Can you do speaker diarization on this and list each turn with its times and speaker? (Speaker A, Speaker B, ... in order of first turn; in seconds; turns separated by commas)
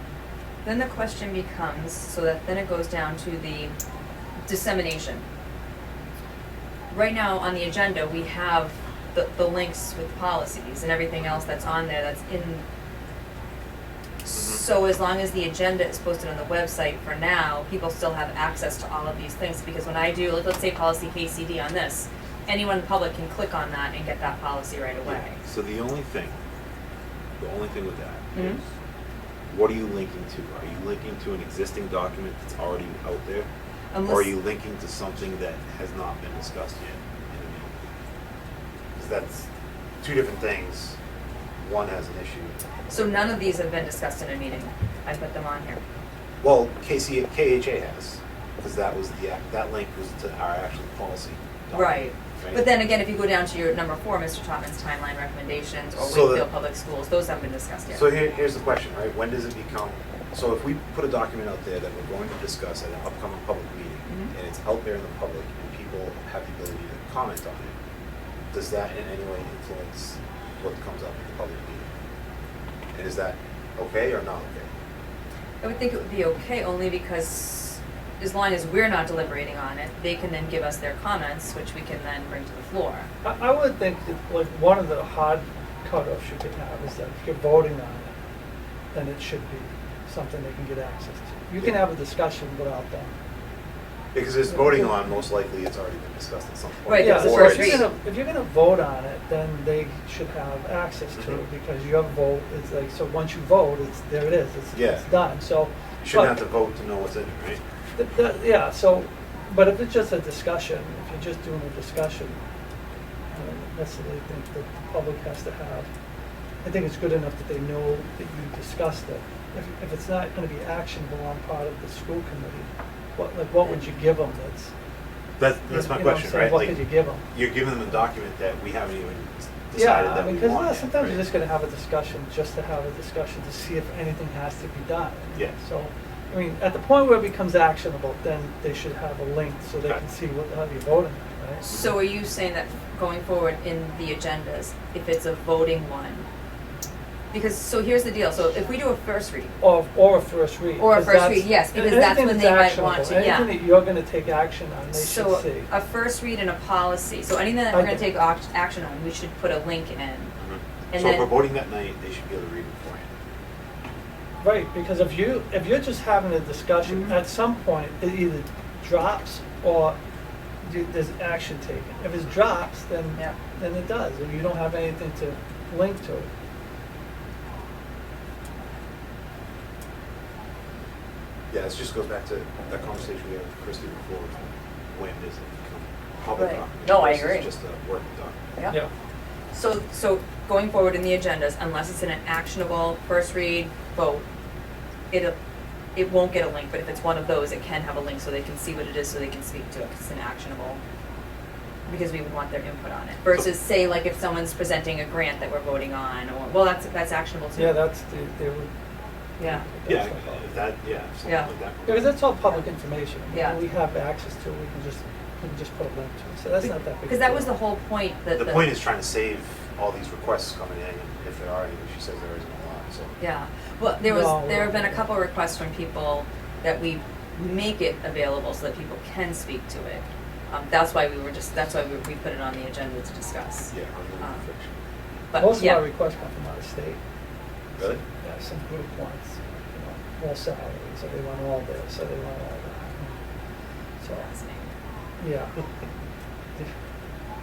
Speaker A: 0.6-3.7, Speaker A: 4.4-5.2, Speaker A: 6.9-12.6, Speaker A: 14.2-25.4, Speaker B: 14.3-14.6, Speaker B: 25.0-26.4, Speaker B: 27.4-28.5, Speaker A: 28.3-28.6, Speaker B: 29.5-33.5, Speaker A: 33.9-34.3, Speaker B: 34.0-37.8, Speaker B: 39.0-39.5, Speaker B: 40.0-41.0, Speaker B: 41.6-43.1, Speaker A: 42.9-45.8, Speaker B: 46.4-52.6, Speaker A: 51.7-58.1, Speaker B: 56.0-56.5, Speaker B: 57.9-67.7, Speaker A: 64.1-64.3, Speaker B: 68.5-71.9, Speaker B: 72.9-74.7, Speaker A: 75.6-83.1, Speaker C: 83.2-88.1, Speaker C: 88.9-93.1, Speaker B: 94.1-97.9, Speaker A: 94.5-94.9, Speaker A: 96.8-97.9, Speaker C: 97.0-105.7, Speaker B: 101.1-101.4, Speaker B: 104.7-105.1, Speaker B: 106.0-107.6, Speaker C: 107.9-112.4, Speaker C: 113.3-115.9, Speaker C: 116.6-124.7, Speaker B: 125.4-131.2, Speaker C: 125.7-127.3, Speaker C: 129.7-141.6, Speaker A: 141.6-146.3, Speaker B: 141.7-141.9, Speaker A: 147.3-149.6, Speaker C: 149.6-155.7, Speaker A: 150.8-153.6, Speaker A: 154.9-160.3, Speaker C: 157.7-158.1, Speaker B: 160.4-163.1, Speaker A: 160.9-161.3, Speaker C: 164.4-170.0, Speaker A: 166.8-167.2, Speaker C: 170.6-176.3, Speaker B: 181.5-188.4, Speaker A: 186.3-187.5, Speaker A: 189.5-194.2, Speaker A: 195.9-200.8, Speaker A: 201.8-207.8, Speaker C: 207.6-208.7, Speaker C: 209.4-210.7, Speaker A: 209.4-209.7, Speaker B: 209.9-212.1, Speaker A: 211.2-211.5, Speaker C: 211.8-217.6, Speaker A: 213.3-213.6, Speaker A: 216.6-218.8, Speaker B: 218.3-223.1, Speaker A: 223.2-234.4, Speaker C: 224.0-225.1, Speaker B: 233.7-234.8, Speaker A: 235.3-235.9, Speaker C: 235.3-237.0, Speaker B: 237.8-238.0, Speaker C: 238.2-243.2, Speaker A: 244.1-244.7, Speaker C: 245.2-245.6